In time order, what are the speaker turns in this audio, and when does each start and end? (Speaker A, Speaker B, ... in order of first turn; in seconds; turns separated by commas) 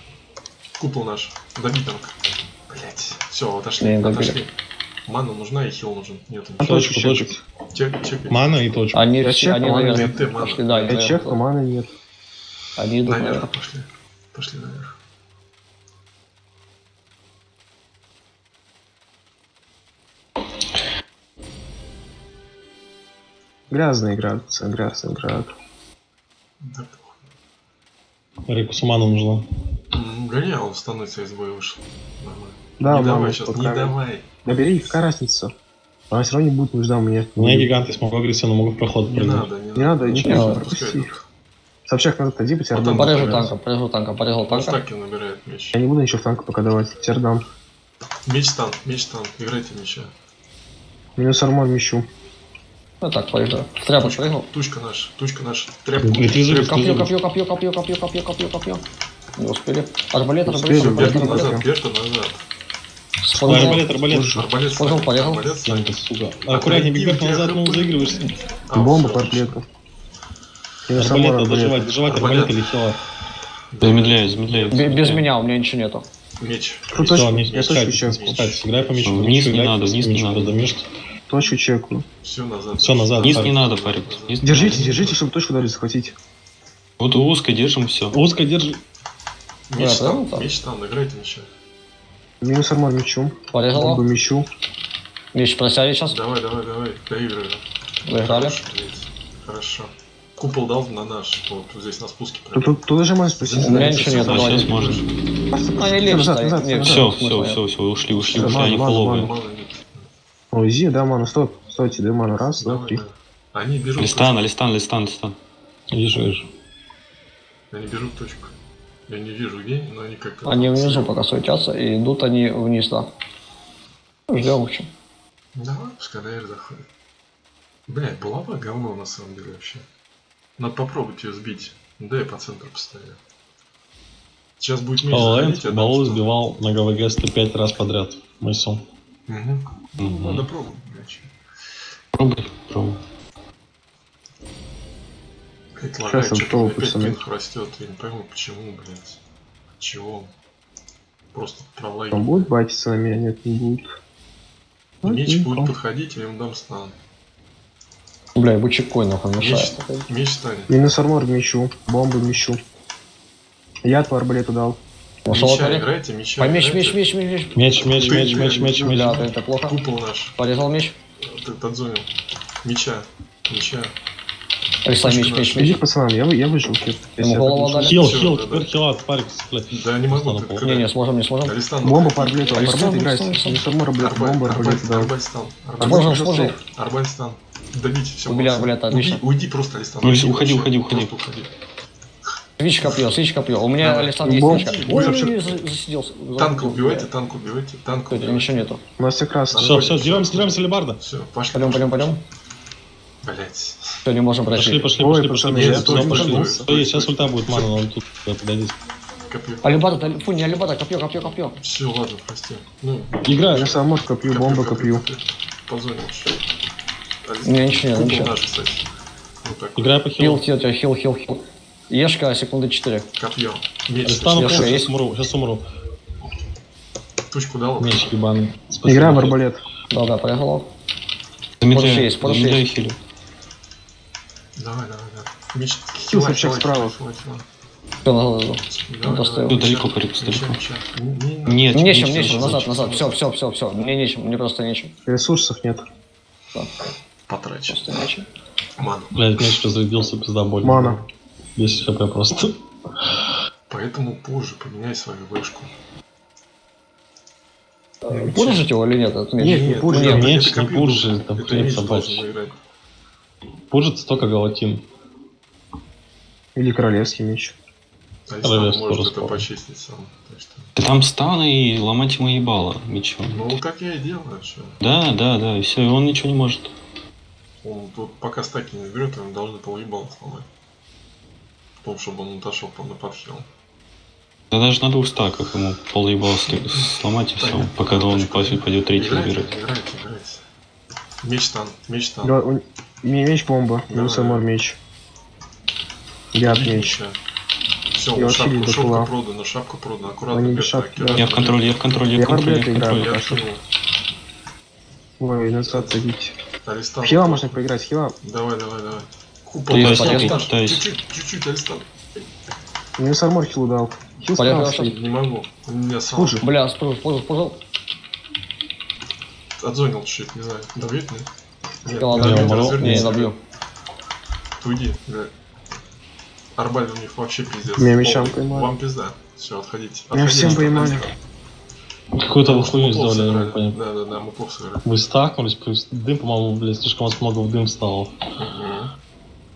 Speaker A: 0.8-2.1, Speaker A: 2.7-4.5, Speaker B: 3.8-4.4, Speaker A: 5.0-6.8, Speaker C: 6.6-7.4, Speaker D: 6.6-7.3, Speaker A: 7.7-8.5, Speaker D: 8.3-9.1, Speaker B: 8.9-11.4, Speaker C: 9.2-10.2, Speaker A: 9.6-11.3, Speaker C: 10.9-11.9, Speaker B: 12.8-13.5, Speaker A: 13.0-14.9, Speaker C: 23.7-25.5, Speaker A: 26.6-27.2, Speaker D: 28.5-29.4, Speaker A: 29.9-34.5, Speaker C: 32.8-35.5, Speaker C: 36.1-37.7, Speaker D: 37.4-39.5, Speaker A: 39.1-41.2, Speaker C: 39.7-41.1, Speaker B: 40.2-40.6, Speaker C: 41.9-43.5, Speaker A: 42.7-43.5, Speaker B: 42.9-44.8, Speaker A: 44.5-45.8, Speaker C: 45.7-47.4, Speaker A: 48.2-50.1, Speaker C: 51.1-52.0, Speaker B: 53.0-54.5, Speaker A: 54.0-57.1, Speaker D: 56.0-57.1, Speaker B: 56.6-58.8, Speaker B: 59.4-61.6, Speaker C: 60.5-61.6, Speaker A: 60.7-62.4, Speaker B: 63.2-64.0, Speaker D: 63.4-64.4, Speaker C: 64.1-64.5, Speaker A: 64.3-65.9, Speaker B: 64.6-65.6, Speaker D: 65.6-68.2, Speaker A: 66.5-69.6, Speaker C: 68.7-69.6, Speaker C: 70.9-71.9, Speaker D: 71.0-73.0, Speaker A: 72.0-72.7, Speaker A: 73.7-74.8, Speaker E: 73.8-75.3, Speaker B: 74.7-76.0, Speaker A: 76.4-79.1, Speaker C: 76.9-78.5, Speaker D: 77.0-80.9, Speaker E: 79.0-80.5, Speaker C: 81.3-82.0, Speaker A: 82.2-85.2, Speaker D: 82.8-83.6, Speaker E: 83.2-85.0, Speaker C: 84.4-86.1, Speaker E: 87.0-88.2, Speaker D: 88.1-88.8, Speaker A: 89.7-91.5, Speaker B: 89.8-90.5, Speaker C: 92.4-94.5, Speaker B: 93.5-94.0, Speaker B: 95.3-96.2, Speaker A: 96.1-97.6, Speaker B: 98.0-98.5, Speaker A: 98.2-102.8, Speaker C: 102.5-104.0, Speaker A: 103.3-105.1, Speaker B: 103.6-104.8, Speaker E: 104.0-105.0, Speaker C: 105.5-107.1, Speaker B: 105.8-107.6, Speaker E: 106.8-109.3, Speaker A: 108.2-110.1, Speaker C: 108.3-109.3, Speaker C: 110.5-113.0, Speaker A: 112.6-114.4, Speaker E: 114.0-115.4, Speaker D: 115.9-116.5, Speaker A: 117.7-118.5, Speaker A: 119.1-121.2, Speaker B: 120.4-123.1, Speaker B: 124.3-124.9, Speaker A: 125.5-126.8, Speaker A: 127.9-129.8, Speaker A: 130.6-133.2, Speaker A: 134.6-136.2, Speaker D: 135.1-138.8, Speaker A: 139.3-141.3, Speaker E: 140.0-140.5, Speaker E: 142.1-143.0, Speaker A: 145.8-149.2, Speaker C: 146.1-147.2, Speaker A: 149.8-150.3, Speaker A: 151.3-152.5, Speaker C: 152.1-153.9, Speaker C: 155.0-155.7, Speaker A: 155.0-156.9, Speaker B: 158.3-160.1, Speaker A: 159.3-160.7, Speaker C: 160.7-162.6, Speaker C: 163.8-164.8, Speaker B: 165.2-165.9, Speaker A: 165.3-167.0, Speaker B: 166.4-167.8, Speaker D: 167.5-169.2, Speaker A: 167.8-170.4, Speaker C: 167.9-168.8, Speaker B: 168.8-169.8, Speaker B: 170.4-170.9, Speaker A: 171.2-172.1, Speaker A: 172.6-173.9, Speaker B: 174.8-175.8, Speaker A: 175.0-175.8, Speaker C: 175.6-178.0, Speaker B: 177.2-177.9, Speaker A: 177.8-178.7, Speaker D: 177.9-180.7, Speaker A: 179.7-180.9, Speaker B: 180.6-181.6, Speaker A: 181.4-183.0, Speaker C: 181.8-185.1, Speaker B: 182.5-183.6, Speaker A: 184.0-191.5, Speaker C: 185.8-186.5, Speaker B: 185.8-186.6, Speaker B: 188.2-189.2, Speaker E: 190.0-191.1, Speaker B: 192.6-197.1, Speaker A: 192.8-193.1, Speaker A: 193.8-195.6, Speaker C: 194.2-195.4, Speaker A: 196.3-198.7, Speaker B: 198.1-198.8, Speaker C: 199.0-199.7, Speaker A: 199.5-202.1, Speaker D: 199.6-201.0, Speaker B: 201.5-202.2, Speaker A: 203.2-204.0, Speaker B: 204.0-204.9, Speaker D: 204.5-208.8, Speaker C: 205.0-206.7, Speaker A: 205.5-207.8, Speaker A: 209.3-210.0, Speaker B: 209.6-211.6, Speaker A: 211.6-216.3, Speaker D: 213.2-213.7, Speaker C: 213.5-215.0, Speaker A: 217.2-218.8, Speaker B: 217.4-218.3, Speaker A: 219.4-220.0, Speaker D: 219.8-220.4, Speaker B: 220.2-223.1, Speaker A: 223.2-224.8, Speaker D: 224.0-225.6, Speaker B: 224.3-224.9, Speaker A: 227.3-228.1, Speaker D: 227.8-229.4, Speaker C: 228.8-229.6, Speaker B: 229.9-230.7, Speaker E: 231.6-233.0, Speaker B: 231.7-232.7, Speaker A: 234.5-237.4, Speaker C: 236.1-236.9, Speaker B: 238.0-239.6, Speaker A: 238.6-243.2, Speaker E: 239.5-240.6, Speaker E: 241.4-242.7, Speaker B: 241.7-244.9, Speaker C: 245.1-245.8, Speaker A: 247.3-248.0, Speaker B: 247.7-248.2, Speaker A: 248.8-249.6, Speaker D: 249.1-251.0, Speaker C: 250.6-251.0, Speaker D: 251.6-252.6, Speaker A: 253.7-255.7, Speaker B: 258.1-260.3, Speaker A: 258.1-258.6, Speaker A: 259.4-262.5, Speaker C: 259.4-260.2, Speaker D: 260.1-262.2, Speaker D: 263.7-264.9, Speaker C: 266.6-267.6, Speaker A: 268.3-270.7, Speaker D: 268.4-269.4, Speaker E: 270.8-273.5, Speaker A: 273.3-274.8, Speaker E: 274.8-276.7, Speaker A: 277.6-280.5, Speaker A: 281.8-283.5, Speaker E: 284.5-289.5, Speaker A: 286.4-290.4, Speaker A: 291.2-292.4, Speaker C: 292.2-294.8, Speaker A: 293.9-294.5, Speaker C: 296.3-297.0, Speaker A: 296.4-297.2, Speaker A: 297.9-301.6, Speaker C: 298.1-299.1, Speaker C: 300.3-301.2, Speaker E: 301.1-303.2, Speaker C: 302.1-303.4, Speaker A: 302.9-303.6, Speaker C: 305.2-306.3, Speaker A: 305.7-306.0, Speaker A: 306.6-307.6, Speaker C: 307.0-308.1, Speaker A: 308.2-312.2, Speaker E: 309.7-310.9, Speaker B: 309.7-310.4, Speaker C: 313.0-314.9, Speaker B: 314.4-314.9, Speaker A: 314.8-316.4, Speaker C: 316.1-316.4, Speaker B: 316.4-317.6, Speaker A: 319.6-321.3, Speaker A: 321.8-323.3, Speaker B: 321.9-323.4, Speaker D: 322.2-323.1, Speaker A: 324.6-325.3, Speaker A: 326.6-331.1, Speaker C: 327.8-328.7, Speaker C: 330.1-331.1, Speaker D: 330.4-330.6, Speaker D: 332.1-333.8, Speaker A: 332.4-334.8, Speaker D: 334.8-338.1, Speaker A: 338.4-338.9